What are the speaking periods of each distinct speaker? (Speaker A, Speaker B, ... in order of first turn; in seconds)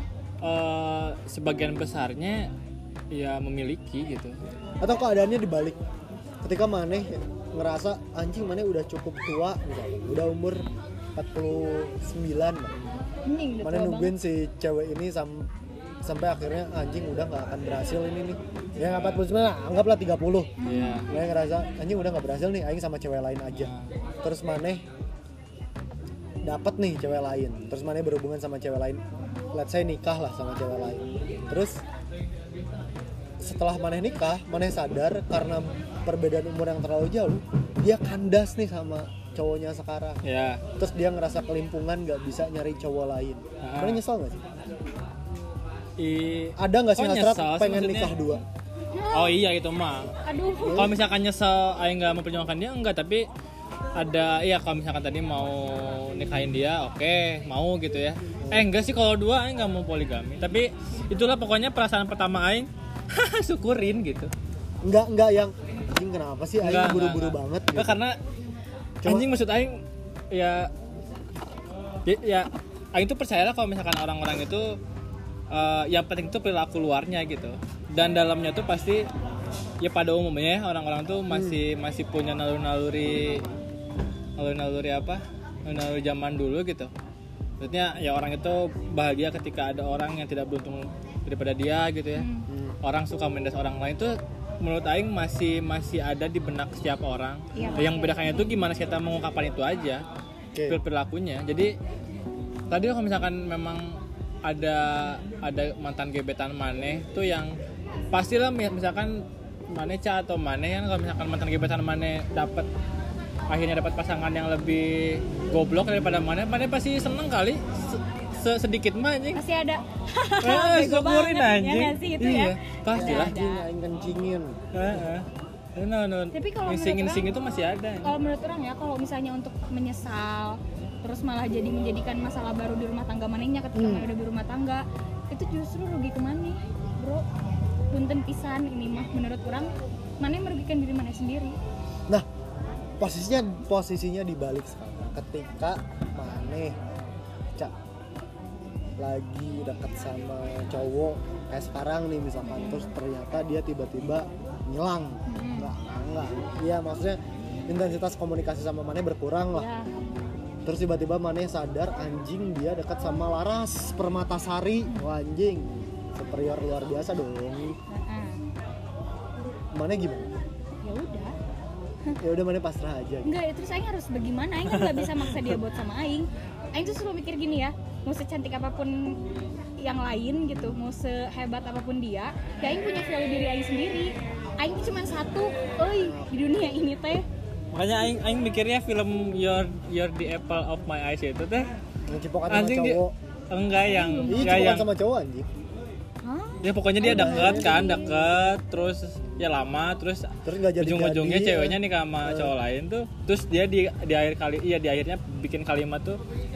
Speaker A: 0.4-2.5, 3.1-4.3, 18.8-19.2, 20.6-21.1, 23.6-23.9, 40.2-40.6, 43.6-44.0, 46.0-48.1, 49.1-50.1, 50.7-53.3, 54.0-64.3, 66.6-68.2, 69.1-70.7, 72.1-74.8, 75.5-79.1, 79.8-83.5, 84.4-86.9, 87.6-92.3, 92.8-100.0, 100.7-101.7, 102.7-107.5, 108.1-112.7, 113.5-119.4, 120.4-123.3, 124.7-128.1, 174.8-175.4, 187.7-191.7, 192.5-194.9, 196.6-206.2
Speaker B: 4.8-5.8, 6.4-12.8, 13.6-15.5, 16.0-20.5, 21.1-23.7, 24.2-24.9, 26.4-29.0, 29.5-31.8, 33.4-40.2, 40.8-44.5, 46.6-48.4, 50.7-50.9, 64.8-68.0, 69.0-69.3, 81.3-81.6, 92.5-92.8, 97.6-97.8, 100.5-100.8, 122.9-125.0, 133.8-134.1, 143.0-146.8, 149.0-159.7, 160.7-167.8, 169.7-170.3, 172.2-173.3, 180.5-180.8, 186.0-186.3, 192.1-193.2, 194.3-195.5, 197.0-197.9, 200.4-202.5
Speaker C: 13.3-14.2, 20.6-21.1, 48.9-49.4, 50.2-50.9, 92.2-92.5, 97.5-98.5, 119.3-123.7, 126.3-127.3, 128.0-137.2, 137.9-141.6, 152.5-152.9, 155.3-155.7, 159.5-159.9, 167.9-168.4, 170.8-171.4, 173.2-179.2, 179.8-187.2, 193.8-194.7, 196.2-198.1